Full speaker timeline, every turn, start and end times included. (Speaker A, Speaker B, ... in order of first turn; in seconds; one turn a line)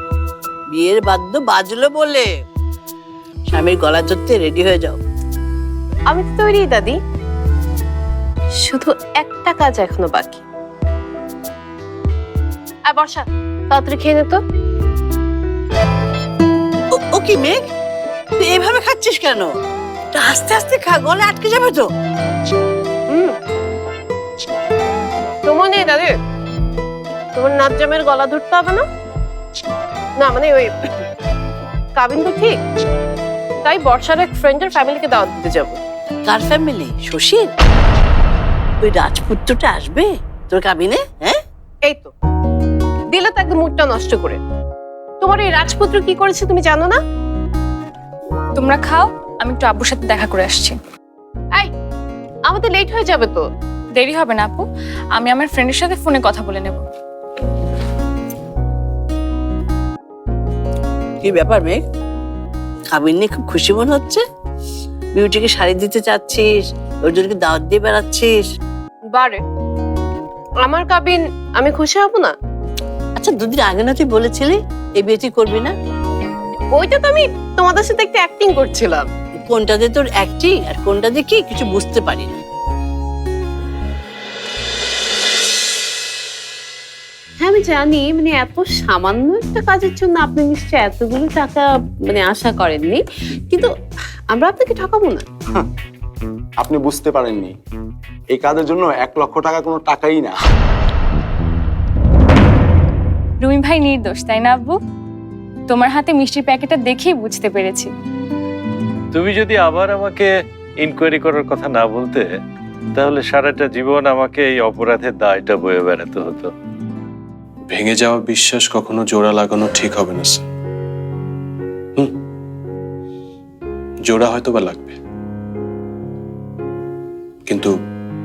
Speaker A: 0.7-2.3
Speaker A: 3.5-5.0
Speaker B: 6.1-7.0
Speaker B: 8.6-10.4
Speaker B: 12.9-14.4
Speaker A: 16.9-17.7
Speaker A: 18.4-19.6
Speaker A: 20.1-21.9
Speaker B: 25.5-26.1
Speaker B: 27.4-28.8
Speaker B: 30.2-30.8
Speaker B: 32.0-32.6
Speaker B: 33.6-35.8
Speaker A: 36.2-37.5
Speaker A: 38.8-41.4
Speaker B: 41.8-42.1
Speaker B: 43.1-44.4
Speaker B: 45.2-47.0
Speaker C: 48.5-50.8
Speaker B: 52.5-53.5
Speaker C: 54.0-54.6
Speaker C: 55.2-56.8
Speaker A: 61.2-61.8
Speaker A: 62.9-64.2
Speaker A: 65.1-68.5
Speaker B: 69.1-69.4
Speaker B: 70.6-72.3
Speaker A: 73.2-75.7
Speaker B: 76.7-79.1
Speaker A: 79.4-82.4
Speaker B: 87.4-93.7
Speaker B: 94.3-95.3
Speaker D: 96.6-97.5
Speaker D: 98.3-100.3
Speaker C: 103.4-104.8
Speaker C: 105.7-107.9
Speaker E: 109.1-110.3
Speaker E: 110.8-112.4
Speaker E: 113.0-116.5
Speaker F: 117.7-120.5
Speaker F: 124.1-125.0